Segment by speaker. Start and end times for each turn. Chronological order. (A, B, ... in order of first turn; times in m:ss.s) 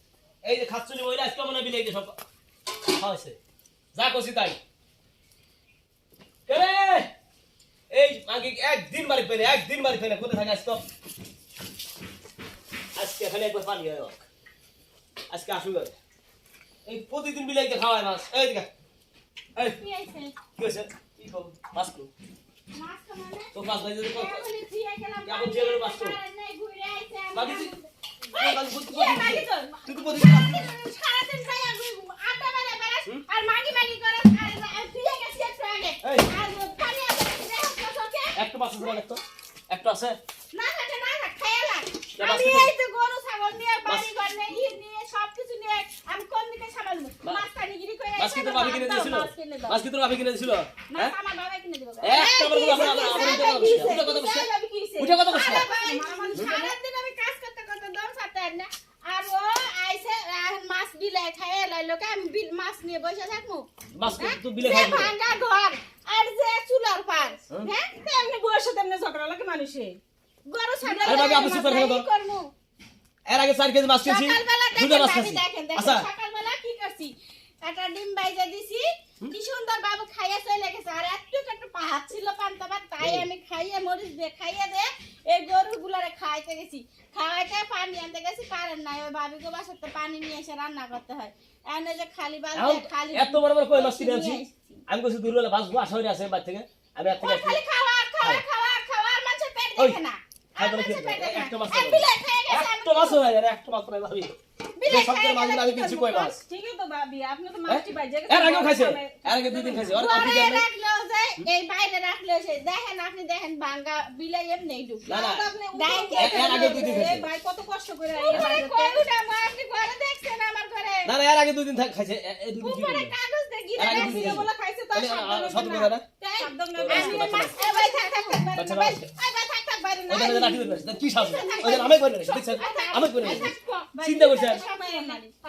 0:00.4-0:02.2 A
0:02.8-0:03.4 A
0:03.9-0:04.6 A
0:06.5-0:07.1 A
0:07.9-0:10.8 A
0:12.9-0:14.2 A
0:15.3-0:15.9 A
0:16.9-0:18.7 A
0:19.8-0:20.4 B
0:20.6-0:22.1 A
0:22.7-0:39.0 B
0:23.5-0:24.5 A
0:25.3-0:26.2 A
0:27.3-0:27.7 A
0:28.3-0:30.7 A
0:36.0-0:36.3 A
0:38.3-0:40.2 A
0:40.5-0:49.8 B
0:42.2-0:42.7 A
0:48.2-0:51.2 A
0:50.9-1:07.9 B
0:52.0-0:55.7 A
0:52.0-0:56.7 C
1:03.9-1:05.1 A
1:07.9-1:10.0 C
1:10.4-1:12.5 B
1:10.8-1:11.7 C
1:11.0-1:12.0 A
1:13.3-1:16.1 A
1:14.0-1:34.8 B
1:23.0-1:23.3 A
1:32.6-1:37.6 A
1:37.1-1:43.2 B
1:40.6-1:44.3 A
1:44.8-1:46.1 B
1:44.9-1:46.4 A
1:45.9-1:50.0 C
1:47.7-1:50.6 A
1:49.9-1:55.1 B
1:55.0-1:59.0 C
1:55.1-1:55.5 A
1:55.8-1:57.1 B
1:56.1-1:57.3 A
1:58.2-2:01.1 B
2:01.0-2:03.1 A
2:02.6-2:08.5 C
2:03.8-2:06.0 A
2:03.8-2:04.4 B
2:06.3-2:15.3 B
2:06.8-2:07.6 A
2:08.5-2:09.0 A
2:10.1-2:14.6 A
2:11.4-2:11.9 C
2:12.6-2:13.5 C
2:14.3-2:15.2 C